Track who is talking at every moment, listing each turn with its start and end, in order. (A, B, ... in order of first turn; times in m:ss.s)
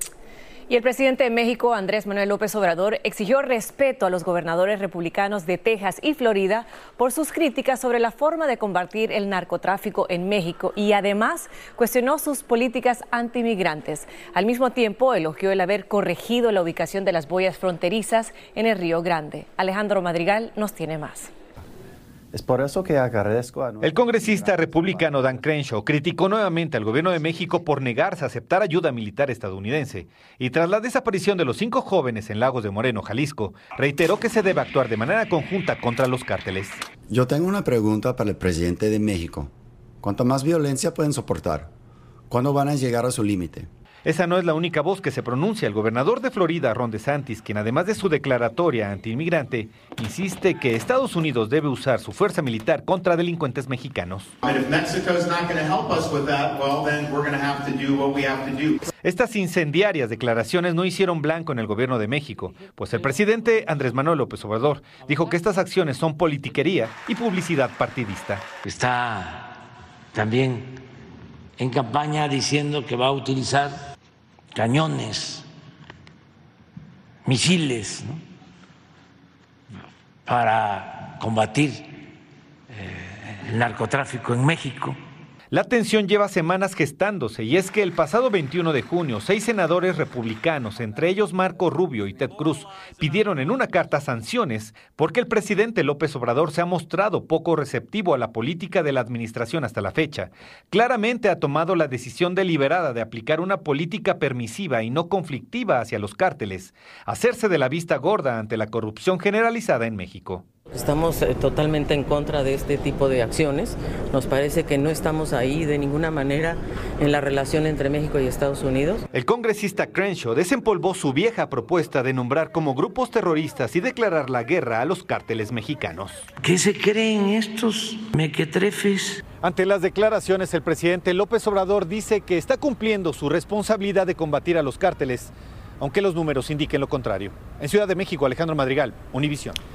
0:00.7-0:21.3 A
0:22.3-0:25.2 B
0:23.8-0:36.8 C
0:37.1-0:41.7 B
0:42.3-0:43.7 B
0:44.0-0:54.3 C
0:59.0-1:08.4 C
1:08.6-1:09.5 D
1:10.1-1:10.8 D
1:11.6-1:13.8 D
1:14.5-1:15.4 D
1:17.2-1:18.2 D
1:20.3-1:21.9 D
1:22.7-1:25.0 D
1:25.5-1:50.4 C
1:50.7-1:59.0 E
1:59.1-2:06.3 C
2:06.4-2:09.2 D
2:09.4-2:19.6 C